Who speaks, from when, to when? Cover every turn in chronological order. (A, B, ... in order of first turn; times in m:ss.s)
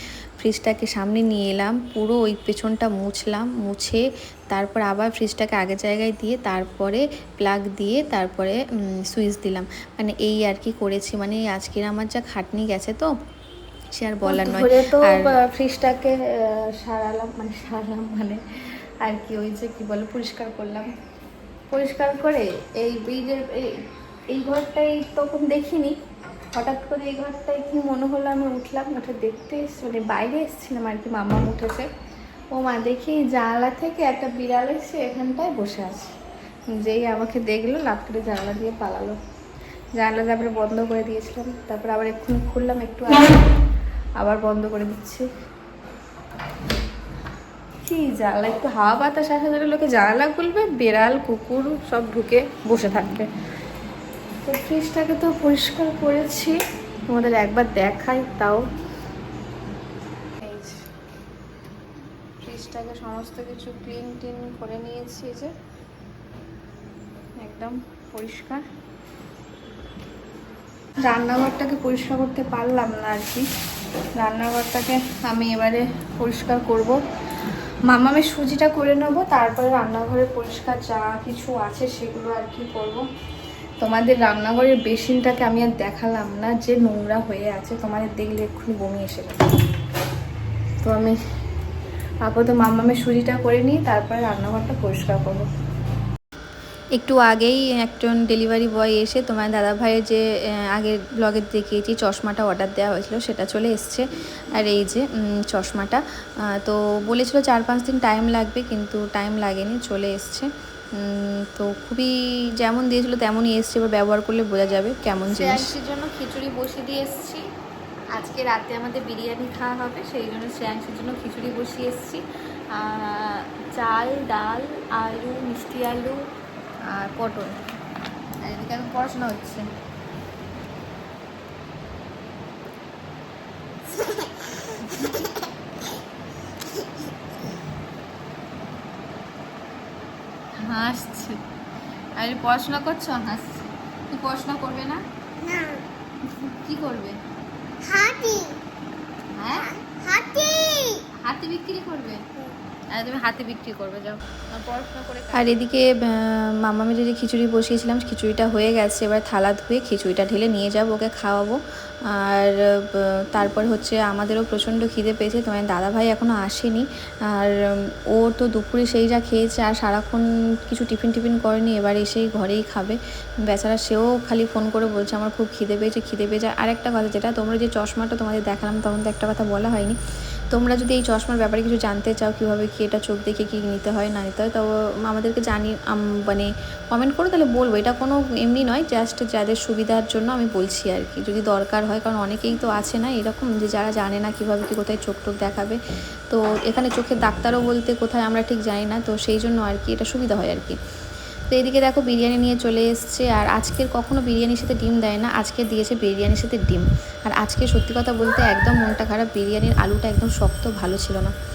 0:00.4-0:13.1 A
0:14.0-0:15.3 A
0:14.2-0:18.4 B
0:19.0-0:20.9 B
0:21.7-0:26.0 B
0:26.5-0:31.9 B
0:32.5-0:36.2 B
0:36.7-0:39.2 B
0:40.0-0:43.6 B
0:44.2-0:45.2 B
0:47.8-0:53.3 B
0:54.4-0:56.6 B
0:57.1-0:58.6 B
1:00.4-1:00.8 B
1:02.4-1:05.5 B
1:07.4-1:08.6 B
1:11.0-1:13.4 B
1:14.2-1:23.0 B
1:23.8-1:29.5 B
1:30.8-1:31.2 B
1:32.2-1:35.5 B
1:37.0-1:44.0 A
1:44.6-1:46.0 A
1:46.6-1:55.7 A
1:55.2-1:57.4 B
1:58.1-2:02.2 B
2:02.7-2:06.2 B
2:06.9-2:07.6 B
2:08.4-2:09.7 B
2:14.8-2:15.2 B
2:20.6-2:21.4 B
2:22.2-2:25.0 B
2:25.4-2:25.8 C
2:26.3-2:27.2 B
2:27.8-2:28.6 C
2:29.4-2:29.7 B
2:29.6-2:31.0 C
2:31.2-2:35.6 B
2:35.3-3:00.0 A
3:00.5-3:20.8 A
3:21.5-3:31.3 A